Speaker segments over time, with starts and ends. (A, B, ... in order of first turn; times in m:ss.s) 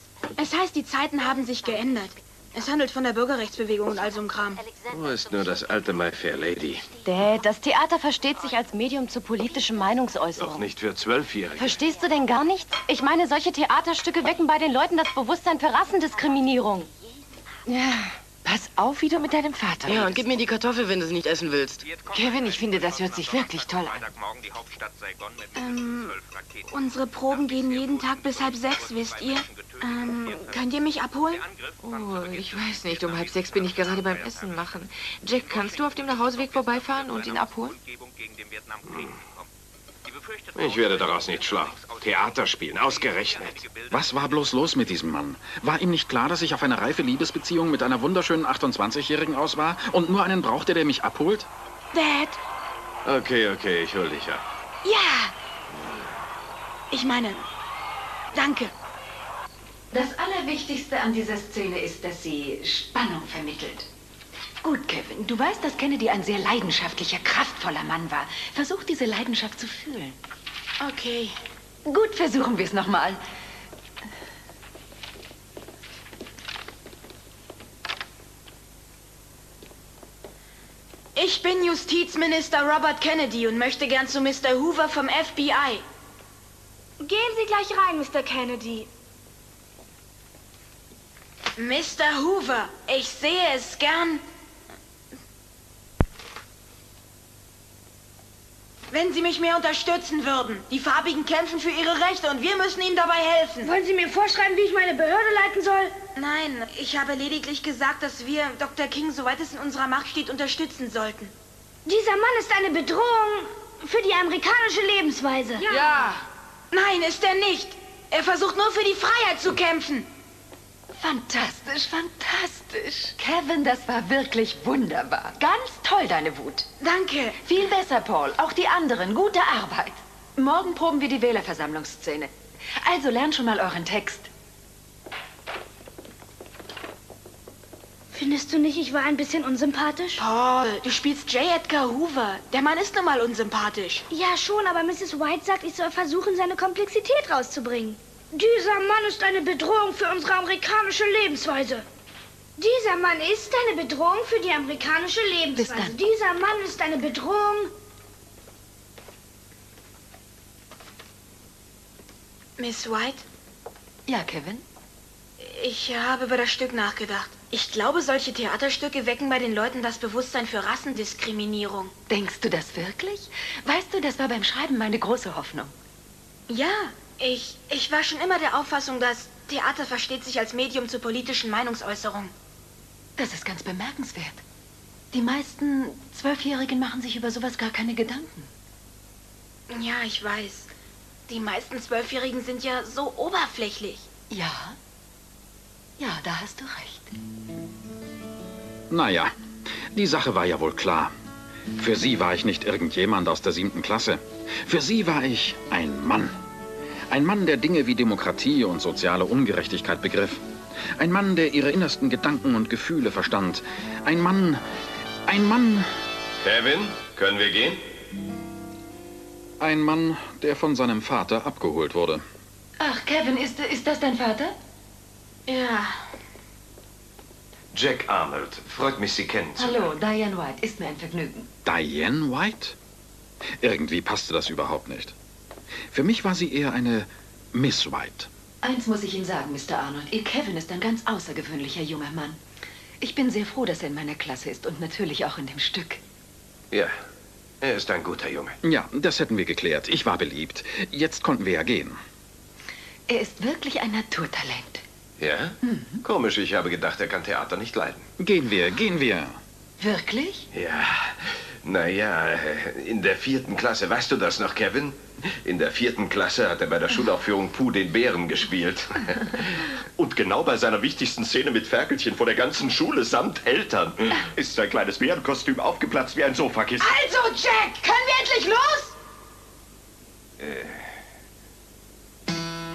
0:00.4-0:04.6 A
0:04.9-0:06.9 B
0:07.0-0:10.6 C
0:10.4-0:11.8 B
0:11.6-0:16.9 C
0:17.7-0:18.1 D
0:18.7-0:20.2 D
0:19.8-0:21.9 E
0:22.1-0:24.1 D
0:25.5-0:26.2 A
0:26.7-0:31.4 A
0:31.8-0:37.8 D
0:38.9-0:39.2 B
0:40.5-0:43.7 B
0:43.9-0:51.5 F
0:51.9-0:52.4 A
0:53.0-0:54.4 B
0:54.8-0:55.3 A
0:56.9-0:57.4 A
0:58.3-0:58.7 A
0:59.9-1:03.9 G
1:04.6-1:10.2 G
1:10.8-1:11.3 A
1:11.8-1:13.2 G
1:21.2-1:25.8 A
1:27.0-1:28.9 H
1:31.6-1:34.2 A
1:38.9-1:43.7 A
1:43.6-1:45.9 H
1:46.1-1:51.3 A
1:51.8-1:55.7 H
1:55.6-1:56.1 A
1:56.7-2:00.1 A
2:00.9-2:06.7 G
2:06.8-2:07.4 A
2:07.4-2:14.3 G
2:18.1-2:20.2 H
2:20.2-2:24.0 A
2:24.1-2:31.8 H
2:32.6-2:37.7 H
2:35.5-2:36.0 G
2:42.6-2:43.2 A
2:44.1-2:44.6 G
2:45.4-2:51.9 A
2:52.1-2:55.7 G
2:56.5-3:02.3 A
3:03.2-3:04.4 G
3:05.1-3:08.5 G
3:09.7-3:10.7 A
3:11.3-3:14.1 A
3:14.3-3:14.8 G
3:16.0-3:17.1 G
3:18.9-3:19.3 F
3:19.9-3:21.1 F
3:21.8-3:26.3 F
3:27.1-3:30.4 F
3:31.0-3:34.6 F
3:35.3-3:35.9 F
3:36.4-3:37.8 B
3:39.6-3:42.2 F
3:42.8-3:44.6 G
3:45.5-3:46.0 A
3:47.7-3:49.8 B
3:49.6-3:51.5 G
3:51.6-3:52.8 F
3:53.6-3:55.1 F
3:55.9-3:58.3 F
3:58.6-4:02.4 G
4:03.0-4:06.0 G
4:06.7-4:07.0 B
4:07.6-4:08.6 B
4:08.6-4:12.0 F
4:13.1-4:14.8 G
4:15.2-4:18.0 B
4:15.6-4:16.0 G
4:18.2-4:19.4 F
4:19.8-4:20.5 G
4:20.5-4:36.9 B
4:36.8-4:39.0 A
4:40.4-4:40.9 B